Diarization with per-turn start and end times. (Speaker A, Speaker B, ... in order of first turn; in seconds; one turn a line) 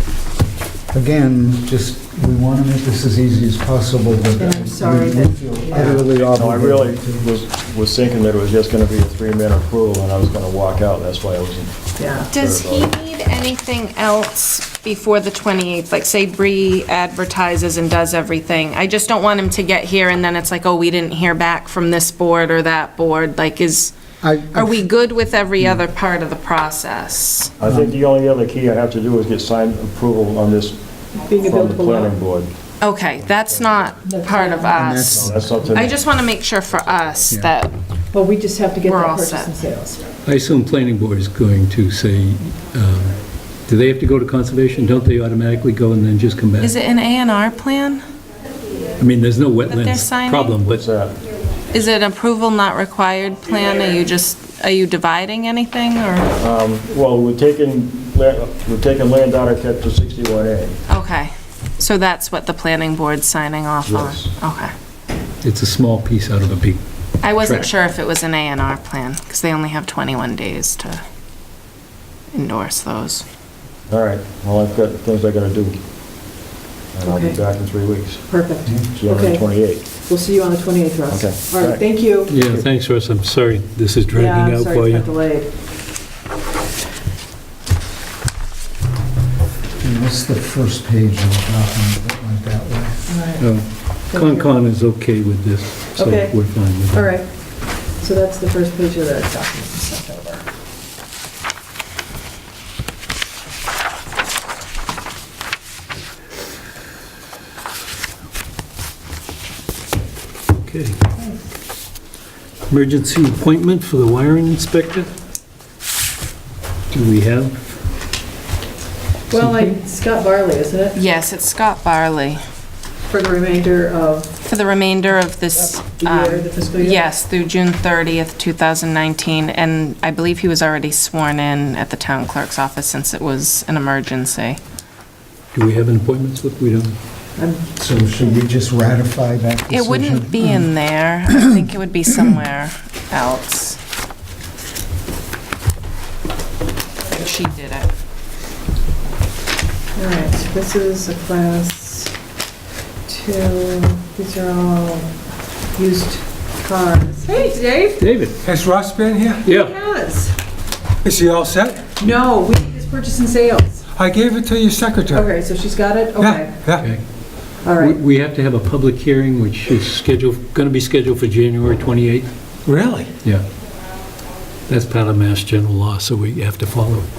Speaker A: 0.9-7.3
Speaker B: 4.3-6.0
Speaker C: 5.8-11.7
Speaker B: 12.0-12.3
Speaker D: 12.3-23.9
Speaker C: 12.4-12.9
Speaker A: 24.2-24.9
Speaker D: 24.5-27.5
Speaker C: 27.6-30.8
Speaker A: 27.6-27.9
Speaker B: 31.1-32.2
Speaker C: 31.4-32.5
Speaker D: 32.8-37.8
Speaker B: 34.0-34.9
Speaker A: 34.7-35.9
Speaker C: 35.1-36.1
Speaker C: 36.8-37.2
Speaker B: 38.1-40.0
Speaker D: 38.8-39.5
Speaker E: 40.2-46.8
Speaker D: 46.6-48.0
Speaker E: 49.0-50.8
Speaker D: 49.8-50.6
Speaker C: 50.6-51.1
Speaker D: 51.7-56.3
Speaker C: 56.4-60.8
Speaker D: 60.9-64.7
Speaker C: 63.9-64.3
Speaker E: 65.4-67.7
Speaker D: 67.2-71.0
Speaker D: 72.3-73.2
Speaker C: 73.9-75.8
Speaker C: 76.9-78.2
Speaker B: 77.0-77.4
Speaker B: 78.3-82.3
Speaker C: 78.9-79.8
Speaker C: 81.1-81.8
Speaker E: 82.3-85.1
Speaker B: 84.1-85.5
Speaker A: 89.8-93.0
Speaker B: 93.1-93.4
Speaker E: 93.4-97.1
Speaker B: 94.1-94.5
Speaker B: 96.0-96.4
Speaker B: 96.9-100.4
Speaker E: 110.5-111.0
Speaker E: 112.7-115.1
Speaker E: 116.9-117.5
Speaker B: 119.3-121.0
Speaker E: 119.3-119.7
Speaker D: 120.9-122.4
Speaker B: 123.1-124.3
Speaker D: 124.4-134.6
Speaker B: 125.9-127.1
Speaker E: 135.5-136.9
Speaker B: 137.4-137.6
Speaker A: 137.8-140.7
Speaker D: 139.7-143.8
Speaker A: 141.3-142.3
Speaker D: 147.1-147.9
Speaker B: 149.9-152.1
Speaker B: 153.1-155.1
Speaker B: 155.8-158.0
Speaker E: 158.0-158.4
Speaker F: 158.4-159.5
Speaker E: 159.4-159.7
Speaker B: 159.4-160.3
Speaker F: 161.0-161.9
Speaker B: 161.8-163.8
Speaker F: 163.9-165.3
Speaker B: 165.1-166.6
Speaker F: 166.2-166.9
Speaker E: 166.7-172.3
Speaker B: 167.6-168.0
Speaker F: 172.7-173.1
Speaker E: 174.7-177.1